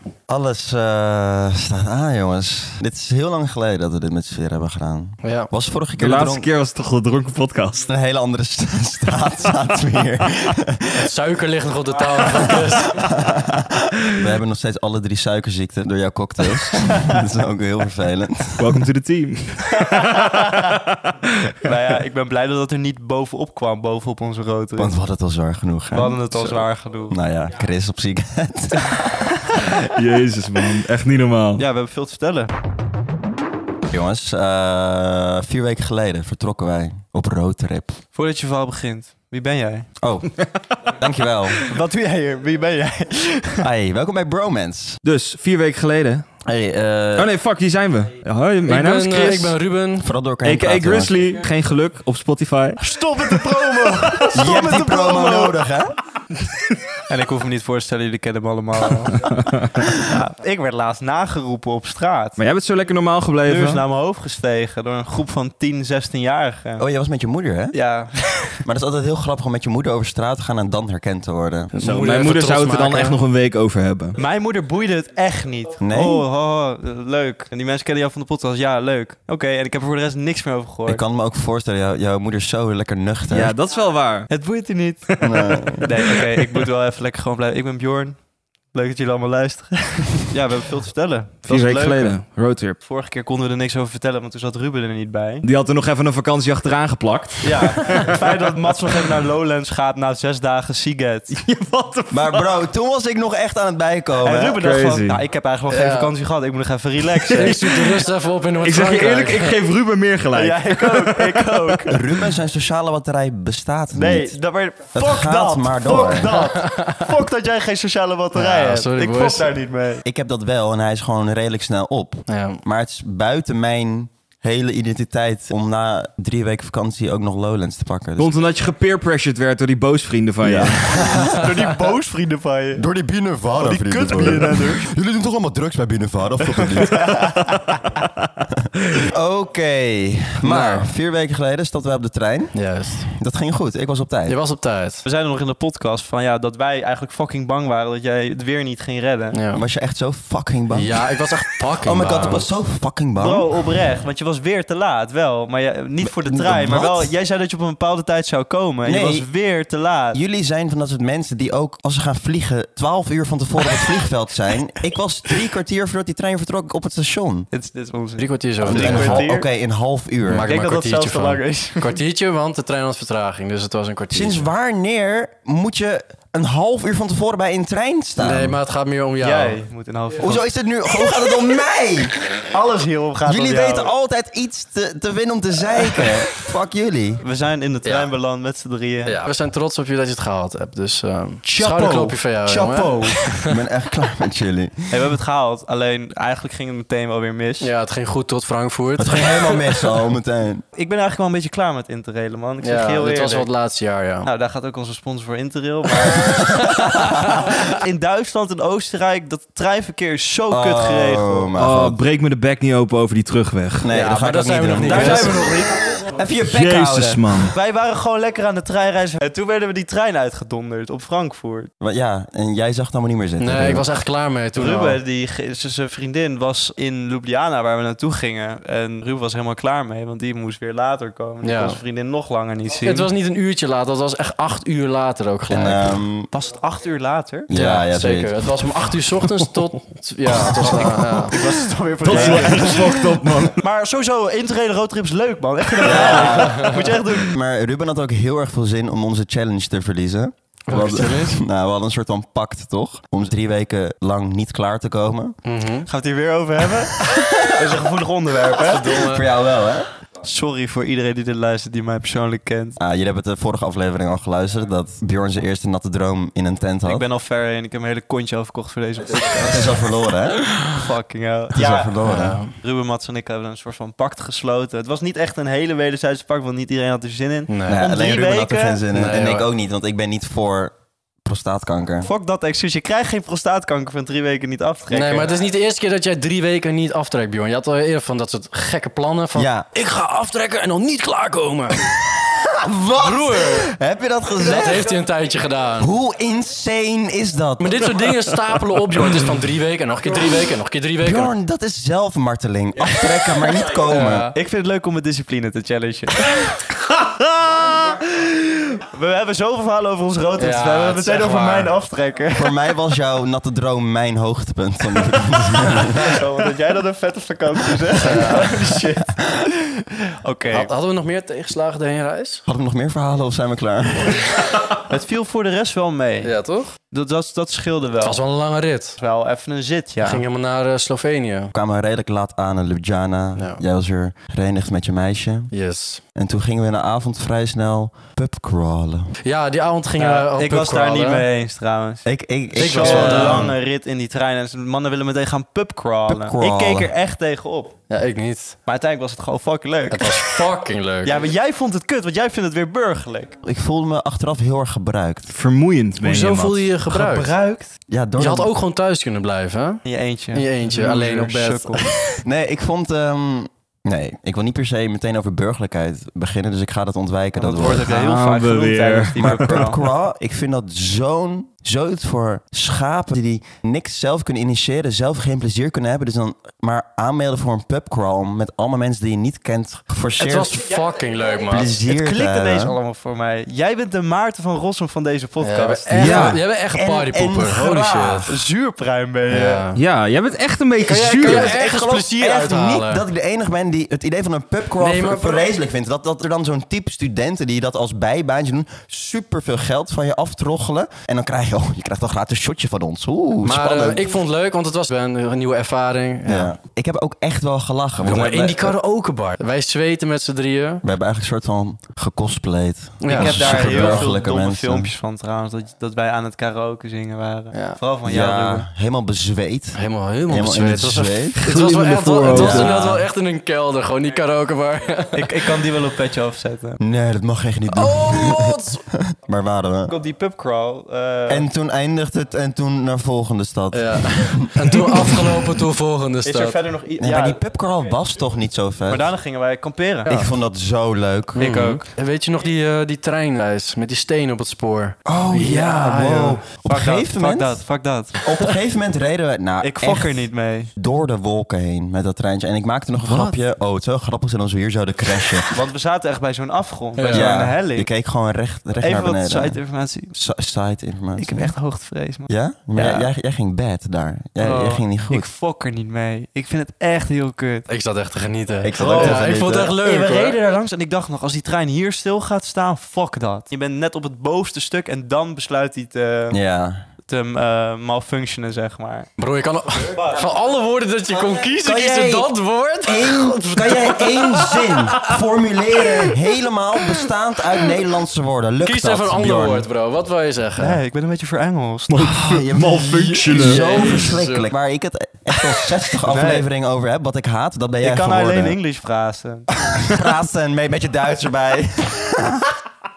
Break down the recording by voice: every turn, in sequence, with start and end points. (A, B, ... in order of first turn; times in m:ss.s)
0:00.3-0:06.5 A
0:05.2-0:05.5 B
0:06.0-0:07.9 C
0:07.9-0:11.1 A
0:11.0-0:13.0 B
0:12.5-0:18.8 A
0:18.6-0:21.8 C
0:21.6-0:24.9 D
0:24.8-0:26.2 A
0:25.9-0:27.2 D
0:27.1-0:29.9 A
0:29.8-0:31.6 C
0:31.6-0:32.5 D
0:33.9-0:38.0 A
0:38.2-0:39.9 D
0:40.0-0:40.3 A
0:40.9-0:41.6 A
0:41.6-0:43.7 D
0:43.6-0:45.0 A
0:45.0-0:46.2 C
0:46.5-0:47.3 A
0:47.2-0:49.6 C
0:48.7-0:50.1 B
0:50.0-0:51.1 A
0:50.4-0:53.4 C
0:52.8-0:55.6 D
0:54.3-0:56.0 A
0:57.1-0:59.3 D
0:59.2-0:59.7 C
1:00.0-1:02.4 D
1:02.4-1:03.8 C
1:03.5-1:06.8 D
1:06.8-1:07.8 A
1:07.7-1:08.6 D
1:08.6-1:11.7 A
1:11.7-1:13.2 B
1:11.8-1:14.2 C
1:14.2-1:21.0 D
1:15.8-1:16.2 A
1:20.9-1:23.5 A
1:23.3-1:24.3 C
1:24.3-1:32.2 D
1:25.2-1:25.9 A
1:26.1-1:26.6 C
1:31.5-1:32.8 C
1:32.8-1:35.5 D
1:35.4-1:38.4 C
1:37.4-1:41.4 D
1:41.4-1:42.5 C
1:42.1-1:44.6 A
1:44.2-1:47.8 D
1:44.6-1:45.2 C
1:45.7-1:46.1 B
1:47.4-1:49.6 B
1:48.6-1:51.9 C
1:50.4-1:52.0 D
1:51.9-1:54.3 A
1:53.9-2:00.0 D
1:54.9-1:56.4 A
1:56.4-1:57.1 B
1:58.3-1:59.5 B
2:00.0-2:08.3 A
2:02.3-2:02.6 B
2:08.2-2:10.8 C
2:10.4-2:11.6 A
2:11.1-2:12.8 D
2:12.8-2:17.1 A
2:13.6-2:14.9 D
2:16.4-2:17.8 D
2:19.0-2:24.4 A
2:20.4-2:20.9 B
2:22.5-2:23.1 B
2:24.3-2:25.0 B
2:25.0-2:29.4 D
2:29.3-2:29.6 B
2:29.5-2:31.1 A
2:30.7-2:32.5 B
2:31.8-2:33.5 A
2:33.2-2:40.2 D
2:36.0-2:37.1 A
2:38.8-2:39.3 A
2:40.1-2:47.5 A
2:47.5-2:49.5 D
2:48.2-2:49.3 B
2:48.6-2:50.5 A
2:50.3-2:54.5 B
2:50.4-2:52.0 D
2:54.1-2:58.6 A
2:58.2-2:59.6 B
2:59.2-3:00.5 D
3:00.2-3:02.2 A
3:02.5-3:03.9 D
3:03.2-3:07.2 A
3:07.2-3:09.2 D
3:07.8-3:08.1 B
3:09.0-3:13.5 B
3:11.5-3:12.2 A
3:12.4-3:13.2 D
3:13.3-3:14.9 A
3:14.9-3:17.7 D
3:17.6-3:19.5 B
3:19.0-3:20.6 A
3:20.8-3:23.5 D
3:22.6-3:24.3 B
3:24.2-3:31.5 D
3:26.2-3:27.4 B
3:27.0-3:27.4 A
3:30.5-3:32.0 A
3:31.6-3:33.9 C
3:33.8-3:35.5 A
3:33.9-3:35.7 B
3:34.8-3:36.1 D
3:36.1-3:37.3 A
3:36.4-3:37.6 C
3:37.4-3:41.7 D
3:41.8-3:43.9 A
3:43.4-3:45.0 B
3:44.6-3:53.1 D
3:51.4-3:51.8 B
3:52.8-3:56.0 B
3:55.5-3:56.3 A
3:56.3-3:57.5 D
3:57.5-3:58.5 A
3:57.5-4:01.6 B
4:00.6-4:03.0 D
4:02.0-4:03.6 C
4:02.1-4:02.6 B
4:03.6-4:07.3 D
4:05.8-4:15.4 A
4:05.9-4:06.7 B
4:10.7-4:11.4 B
4:15.4-4:15.9 B
4:15.9-4:19.1 D
4:18.6-4:19.2 B
4:18.9-4:19.9 A
4:20.2-4:22.8 D
4:22.8-4:27.1 A
4:26.8-4:29.8 D
4:29.4-4:30.5 A
4:30.6-4:38.8 D
4:31.5-4:32.4 A
4:32.0-4:32.6 B
4:37.5-4:37.9 B
4:37.7-4:40.7 A
4:38.9-4:39.5 B
4:41.2-4:42.1 A
4:42.0-4:45.4 D
4:44.9-4:51.9 B
4:49.4-4:49.7 A
4:52.3-4:54.9 A
4:53.0-4:53.7 B
4:54.4-4:55.9 B
4:55.8-4:58.0 A
4:57.6-5:01.3 B
5:01.0-5:04.3 A
5:03.9-5:04.4 B
5:04.4-5:06.4 D
5:07.5-5:07.9 C
5:08.8-5:12.6 D
5:10.4-5:11.7 B
5:12.4-5:16.2 A
5:15.8-5:20.7 D
5:18.0-5:18.9 B
5:20.5-5:22.4 B
5:22.5-5:24.3 A
5:24.7-5:28.2 D
5:26.2-5:26.7 B
5:28.0-5:29.0 B
5:29.0-5:30.2 D
5:30.0-5:31.5 B
5:31.5-5:35.5 A
5:33.4-5:33.6 B
5:35.5-5:36.0 B
5:36.2-5:39.2 A
5:39.2-5:41.3 B
5:40.0-5:47.8 D
5:42.0-5:43.5 A
5:42.6-5:43.6 B
5:46.1-5:46.9 A
5:47.9-5:48.6 B
5:48.7-5:50.4 D
5:49.9-5:51.3 B
5:51.0-5:53.4 D
5:53.4-5:55.3 A
5:55.3-5:56.7 C
5:56.0-5:57.3 B
5:56.9-5:57.7 D
5:57.9-5:58.5 A
5:58.2-6:02.2 B
5:59.8-6:02.0 D
6:02.2-6:08.0 A
6:07.4-6:09.8 D
6:07.7-6:09.7 C
6:09.2-6:20.6 A
6:20.2-6:21.8 B
6:21.5-6:22.8 A
6:21.8-6:26.1 D
6:25.4-6:28.4 B
6:26.0-6:28.3 A
6:26.0-6:26.4 C
6:28.3-6:29.6 D
6:29.3-6:29.8 B
6:29.7-6:31.6 C
6:30.8-6:33.0 B
6:31.2-6:44.2 A
6:34.8-6:35.5 B
6:43.4-6:46.6 B
6:46.3-6:48.8 A
6:48.0-6:50.8 B
6:50.8-6:54.9 A
6:53.0-6:54.0 B
6:53.1-6:58.7 D
6:58.0-7:01.4 A
6:59.8-7:05.3 B
7:01.4-7:02.8 C
7:02.3-7:03.1 A
7:05.1-7:06.8 D
7:06.8-7:10.0 A
7:07.7-7:08.8 B
7:09.9-7:11.5 D
7:11.3-7:15.4 A
7:13.7-7:16.6 B
7:16.2-7:17.4 D
7:17.0-7:19.1 A
7:18.9-7:20.3 D
7:20.1-7:21.6 A
7:21.4-7:26.4 B
7:21.4-7:21.8 D
7:25.0-7:27.6 A
7:26.5-7:28.2 D
7:28.2-7:30.2 A
7:29.6-7:30.7 D
7:30.8-7:35.5 A
7:35.5-7:37.9 D
7:37.0-7:37.3 B
7:37.1-7:39.6 A
7:38.8-7:40.1 D
7:40.1-7:41.5 A
7:41.2-7:43.1 D
7:42.3-7:45.3 A
7:44.4-7:47.7 D
7:47.7-7:50.4 B
7:48.6-7:49.8 A
7:48.8-7:56.4 D
7:56.3-7:56.8 A
7:57.1-7:59.1 D
7:59.2-8:05.1 B
8:01.5-8:02.3 A
8:02.8-8:09.7 A
8:05.8-8:06.2 B
8:08.6-8:10.8 B
8:10.6-8:12.0 D
8:11.9-8:13.7 C
8:12.0-8:18.6 A
8:13.3-8:14.5 B
8:16.1-8:16.5 D
8:17.8-8:19.6 D
8:19.7-8:22.6 A